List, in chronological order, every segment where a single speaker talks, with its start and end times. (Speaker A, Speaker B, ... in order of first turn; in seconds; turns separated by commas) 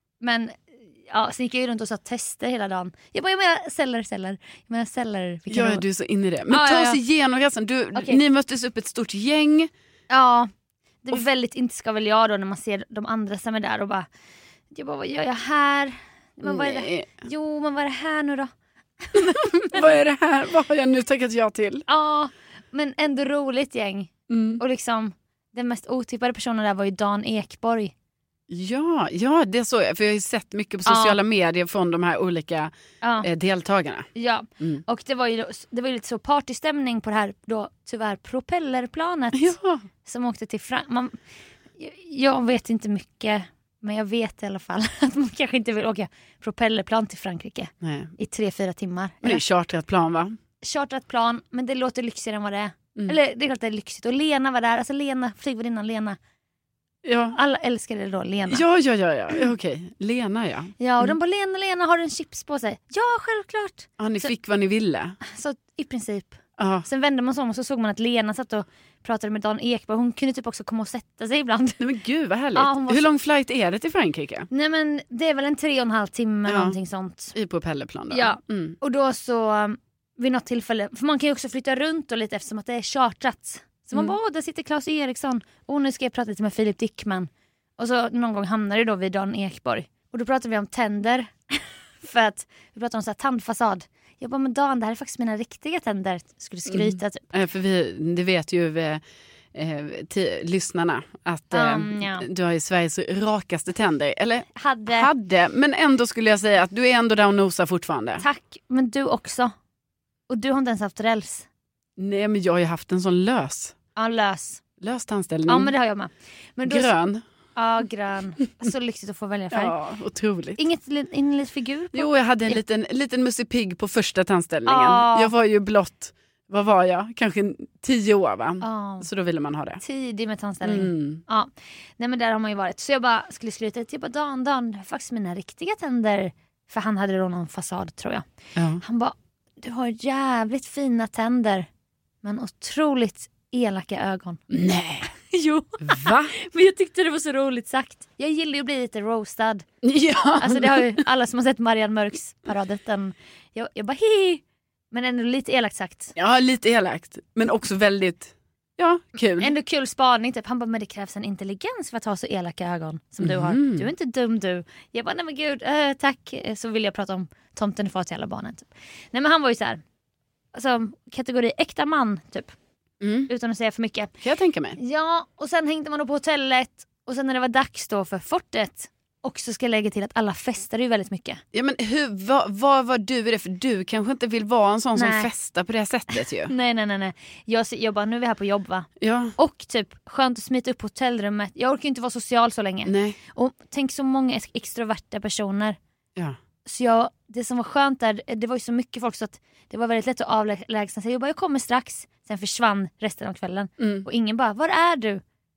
Speaker A: 0.2-5.8, Speaker B: 5.5-9.7, Speaker A: 6.5-7.0, Speaker A: 8.0-8.2, Speaker A: 10.1-10.5, Speaker A: 11.0-14.1, Speaker A: 14.7-18.5, Speaker B: 16.4-17.1, Speaker A: 19.0-19.9, Speaker B: 19.1-21.9, Speaker A: 21.9-27.9, Speaker B: 24.3-24.6, Speaker B: 28.5-32.7, Speaker A: 30.9-31.2, Speaker A: 33.0-33.3, Speaker B: 33.2-34.8, Speaker A: 34.1-41.2, Speaker B: 39.3-39.9, Speaker A: 41.8-49.4, Speaker B: 47.8-48.1, Speaker B: 49.2-50.4, Speaker A: 50.6-56.2, Speaker B: 57.0-57.4, Speaker A: 57.4-58.6, Speaker B: 58.5-61.2, Speaker A: 60.8-64.3, Speaker B: 64.0-65.2, Speaker A: 65.2-71.8, Speaker B: 66.6-66.9, Speaker B: 71.8-74.5, Speaker A: 72.5-73.1, Speaker A: 74.5-77.3, Speaker B: 76.5-76.8, Speaker B: 77.3-78.8, Speaker A: 78.1-97.2, Speaker B: 96.7-99.0, Speaker B: 99.5-108.2, Speaker A: 101.5-102.3, Speaker A: 104.5-105.1, Speaker A: 108.2-109.5, Speaker A: 110.3-111.5, Speaker B: 112.0-113.8, Speaker A: 114.0-114.6, Speaker B: 114.8-115.7, Speaker A: 115.5-116.9, Speaker B: 116.7-117.2, Speaker A: 117.6-119.8, Speaker B: 119.5-120.6, Speaker A: 120.6-122.6, Speaker B: 121.9-129.8, Speaker A: 124.7-125.3, Speaker A: 128.6-129.1, Speaker A: 129.8-138.3, Speaker B: 130.6-131.2, Speaker B: 138.6-138.8, Speaker A: 138.8-141.7, Speaker A: 142.2-144.4, Speaker B: 144.5-145.1, Speaker A: 145.3-149.7, Speaker B: 145.8-146.3, Speaker B: 149.8-151.0, Speaker A: 150.4-156.1, Speaker B: 156.2-159.5, Speaker A: 159.4-169.8, Speaker B: 163.2-163.9, Speaker A: 170.5-172.5, Speaker B: 173.0-173.3, Speaker A: 173.3-174.1, Speaker B: 174.2-174.8, Speaker A: 174.8-181.4, Speaker B: 181.5-186.5, Speaker A: 185.0-185.3, Speaker A: 186.2-195.8, Speaker B: 189.0-189.4, Speaker B: 192.9-193.2, Speaker A: 196.7-205.2, Speaker B: 203.8-204.1